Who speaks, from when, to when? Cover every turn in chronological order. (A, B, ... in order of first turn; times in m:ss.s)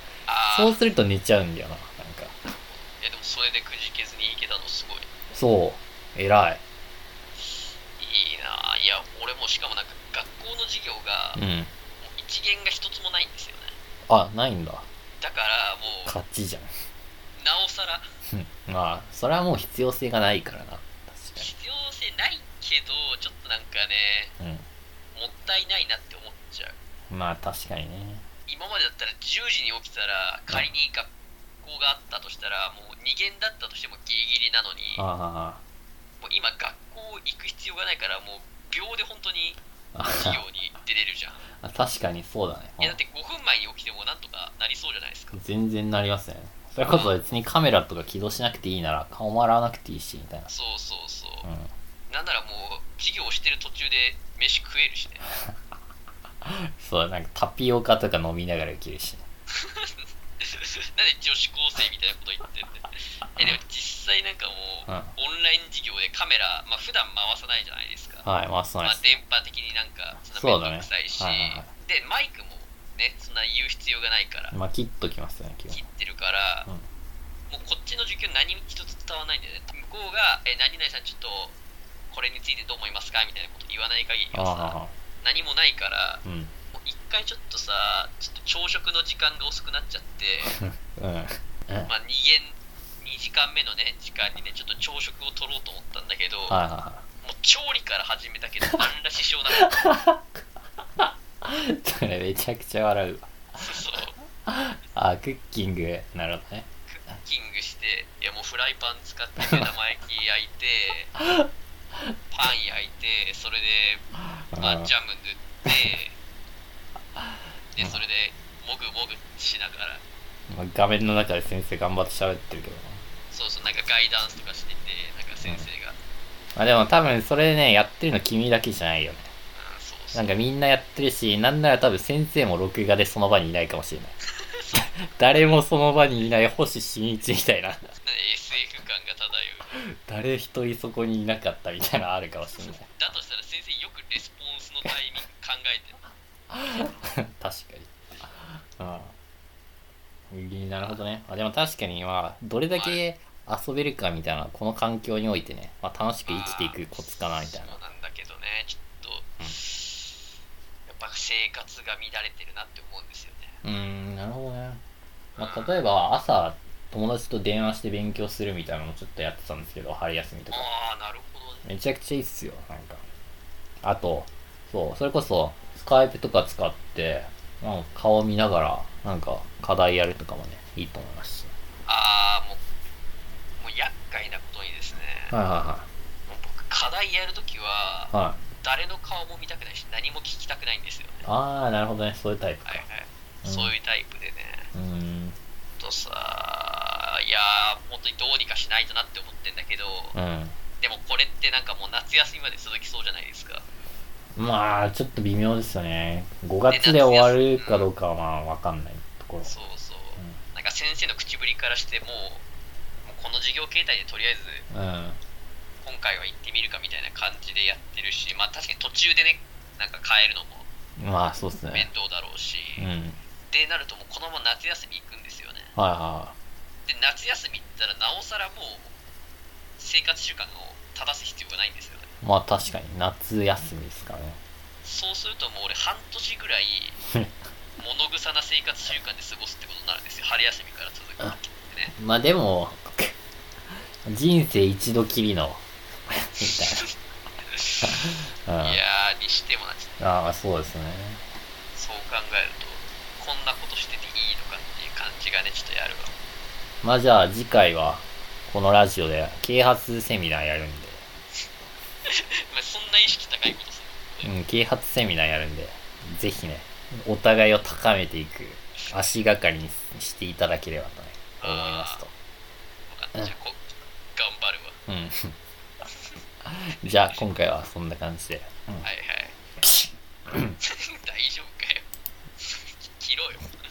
0:00.3-0:00.8 A
0:00.5-0:02.4 B
0:02.6-0:05.1 A
0:05.3-0:06.6 B
0:07.4-0:11.4 A
0:11.4-0:11.7 B
0:12.0-0:13.8 A
0:14.1-0:14.9 B
0:15.2-0:16.2 A
0:16.0-0:16.7 B
0:17.4-0:18.1 A
0:18.3-0:21.5 B
0:21.4-0:24.3 A
0:24.4-0:24.6 B
0:25.2-0:26.8 A
0:27.1-0:28.3 B
0:28.5-0:31.1 A
0:31.6-0:35.1 A
0:35.0-0:35.6 B
0:36.2-0:41.4 A
0:39.9-0:40.4 B
0:41.6-0:43.0 B
0:42.8-0:45.4 A
0:45.3-0:50.5 B
0:46.9-0:47.1 A
0:50.5-0:51.5 A
0:51.4-0:51.7 B
0:52.1-0:55.2 A
0:56.4-0:59.2 B
0:59.5-1:08.3 A
1:04.9-1:05.1 B
1:08.2-1:09.1 B
1:08.8-1:14.6 A
1:10.3-1:11.7 B
1:14.5-1:15.8 B
1:15.7-1:16.7 A
1:17.5-1:21.6 A
1:22.1-1:30.6 A
1:24.3-1:24.9 B
1:26.2-1:26.5 B
1:30.4-1:31.9 B
1:31.9-1:36.6 A
1:36.5-1:37.0 B
1:37.2-1:39.8 A
1:39.6-1:40.2 B
1:41.0-1:43.4 B
1:43.6-1:44.2 A
1:44.5-1:46.7 B
1:46.9-1:51.1 A
1:49.4-1:49.7 B
1:51.2-1:51.5 B
1:52.3-1:54.1 A
1:54.5-1:54.9 B
1:54.6-1:56.2 A
1:57.7-2:00.0 A
2:00.5-2:03.0 B
2:03.3-2:06.0 A
2:05.4-2:05.7 B
2:06.6-2:09.3 B
2:09.6-2:10.3 A
2:10.1-2:14.2 B
2:14.5-2:15.6 A
2:14.8-2:17.8 B
2:18.0-2:19.7 A
2:19.8-2:22.9 B
2:22.9-2:26.0 A
2:26.5-2:29.1 B
2:30.3-2:37.8 B
2:32.7-2:33.0 A
2:36.3-2:40.2 A
2:40.9-2:43.6 A
2:43.6-2:44.8 B
2:45.4-2:45.8 A
2:45.4-2:50.7 B
2:50.5-2:51.7 A
2:51.6-2:53.1 B
2:53.8-3:01.5 B
3:01.9-3:02.6 A
3:03.6-3:05.3 A
3:05.3-3:05.9 B
3:06.3-3:11.2 A
3:08.1-3:08.4 B
3:11.2-3:12.8 B
3:12.6-3:14.7 A
3:13.4-3:13.8 B
3:14.7-3:15.4 B
3:15.8-3:20.2 A
3:20.1-3:20.6 B
3:20.8-3:23.6 A
3:24.4-3:29.5 B
3:26.7-3:27.9 A
3:29.4-3:32.4 A
3:33.1-3:34.7 A
3:34.7-3:35.2 B
3:35.8-3:40.7 A
3:41.0-3:41.9 B
3:41.7-3:42.9 A
3:42.8-3:43.2 B
3:43.5-3:45.8 A
3:45.8-3:46.4 B
3:46.9-3:48.9 A
3:49.8-3:52.1 A
3:52.2-3:54.4 B
3:54.8-3:57.0 A
3:57.8-4:02.0 A
4:01.9-4:03.1 B
4:04.1-4:05.6 B
4:06.2-4:06.9 B
4:07.6-4:07.9 A
4:07.8-4:08.8 B
4:08.6-4:10.0 A
4:10.0-4:11.2 B
4:11.7-4:16.1 A
4:16.8-4:21.0 B
4:22.1-4:24.3 A
4:24.2-4:32.1 B
4:31.4-4:32.1 A
4:32.9-4:34.8 A
4:34.9-4:35.4 B
4:36.4-4:38.9 B
4:38.8-4:39.4 A
4:39.6-4:40.6 B
4:40.6-4:41.8 A
4:42.4-4:43.5 A